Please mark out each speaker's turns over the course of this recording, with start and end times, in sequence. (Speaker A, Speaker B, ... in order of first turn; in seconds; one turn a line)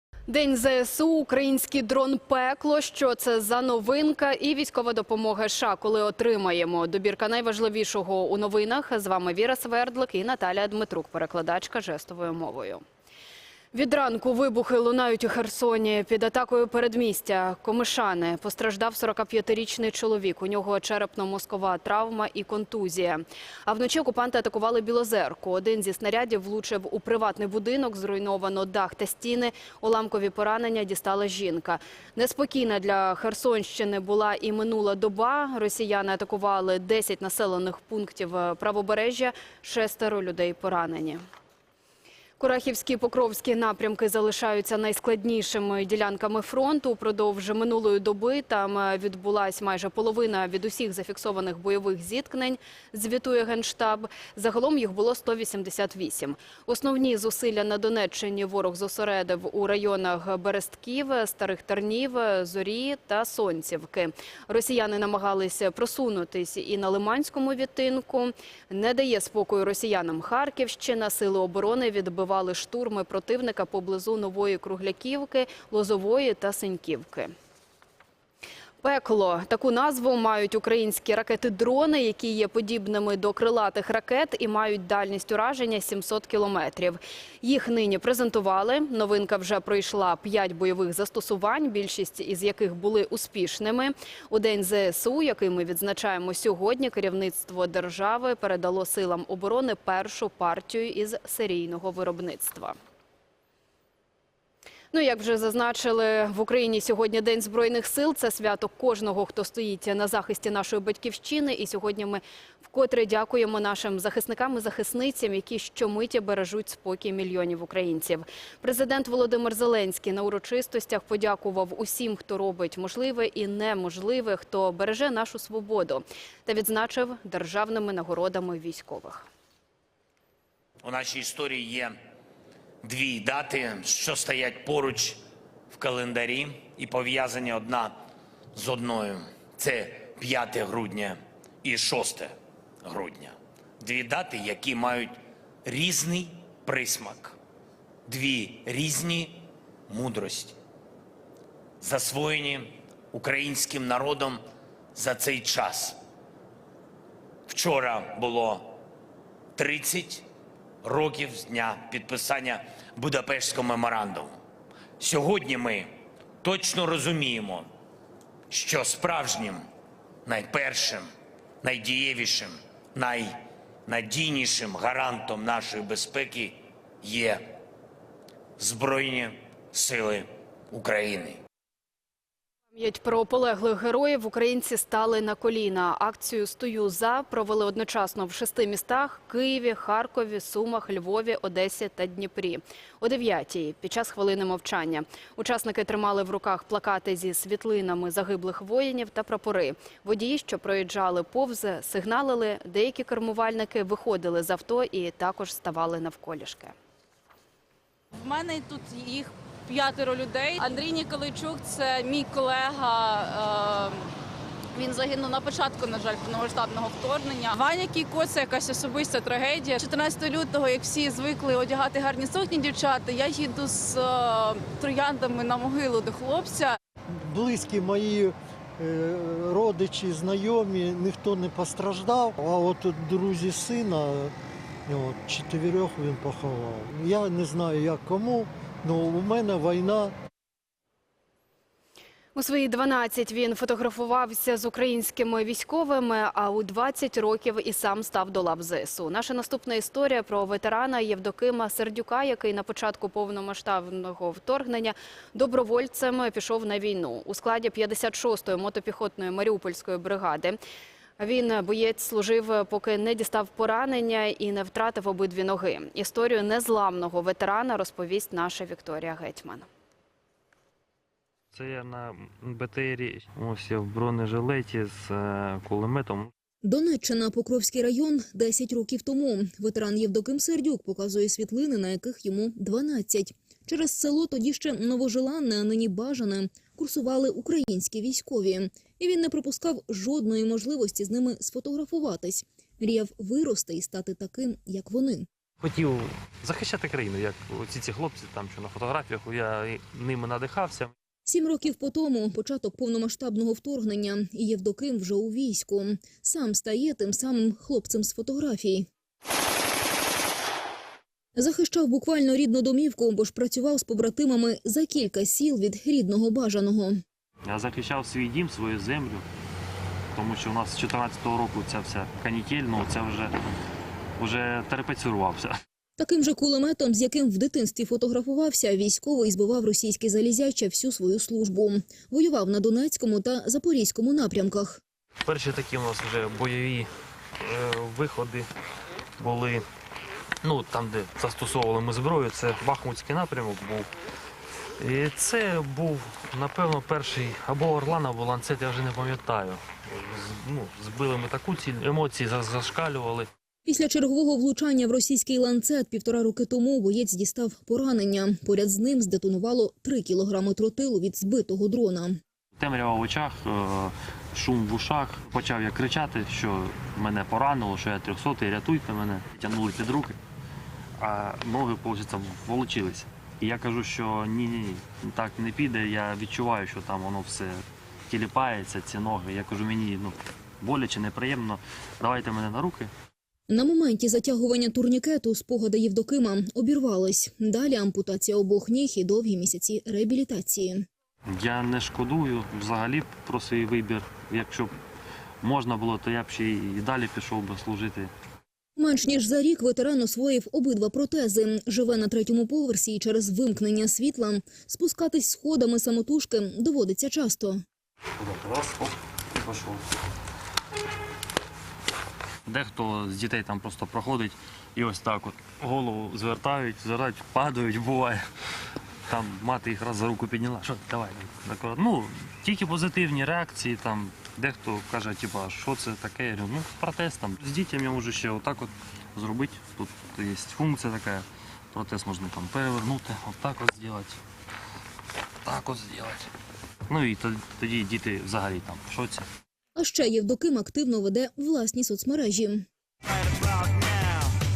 Speaker A: 0.3-12.8
Speaker A: 13.7-41.2
Speaker A: 42.4-77.3
Speaker A: 78.8-102.8
Speaker A: 104.9-129.3
Speaker B: 130.8-132.0
Speaker B: 132.8-138.0
Speaker B: 138.5-147.4
Speaker B: 148.1-150.6
Speaker B: 151.8-154.4
Speaker B: 154.9-156.0
Speaker B: 157.5-158.8
Speaker B: 159.6-160.3
Speaker B: 160.8-164.4
Speaker B: 165.0-167.7
Speaker B: 168.5-169.7
Speaker B: 170.2-171.1
Speaker B: 171.6-177.5
Speaker B: 178.6-181.4
Speaker A: 182.7-206.7
Speaker C: 208.1-214.1
Speaker C: 214.8-226.8
Speaker D: 227.2-234.3
Speaker D: 234.9-240.1
Speaker A: 242.3-260.6
Speaker A: 261.2-269.7
Speaker E: 271.5-276.3
Speaker F: 276.6-295.3
Speaker E: 295.6-300.9
Speaker F: 301.3-308.9
Speaker F: 311.4-317.0
Speaker E: 317.5-319.3
Speaker E: 320.1-323.4
Speaker E: 324.2-325.6
Speaker F: 326.0-334.8
Speaker E: 335.2-336.9
Speaker E: 337.4-338.5
Speaker E: 339.2-339.6
Speaker E: 340.4-343.9
Speaker E: 344.8-353.3
Speaker F: 353.6-362.2
Speaker E: 362.6-370.2
Speaker E: 371.0-382.9
Speaker F: 383.5-390.9
Speaker E: 391.3-394.7
Speaker E: 395.4-398.1
Speaker F: 398.8-407.6
Speaker E: 408.2-409.8
Speaker E: 412.5-418.2
Speaker E: 419.1-434.2
Speaker E: 435.4-436.3
Speaker E: 436.9-439.3
Speaker F: 439.8-442.7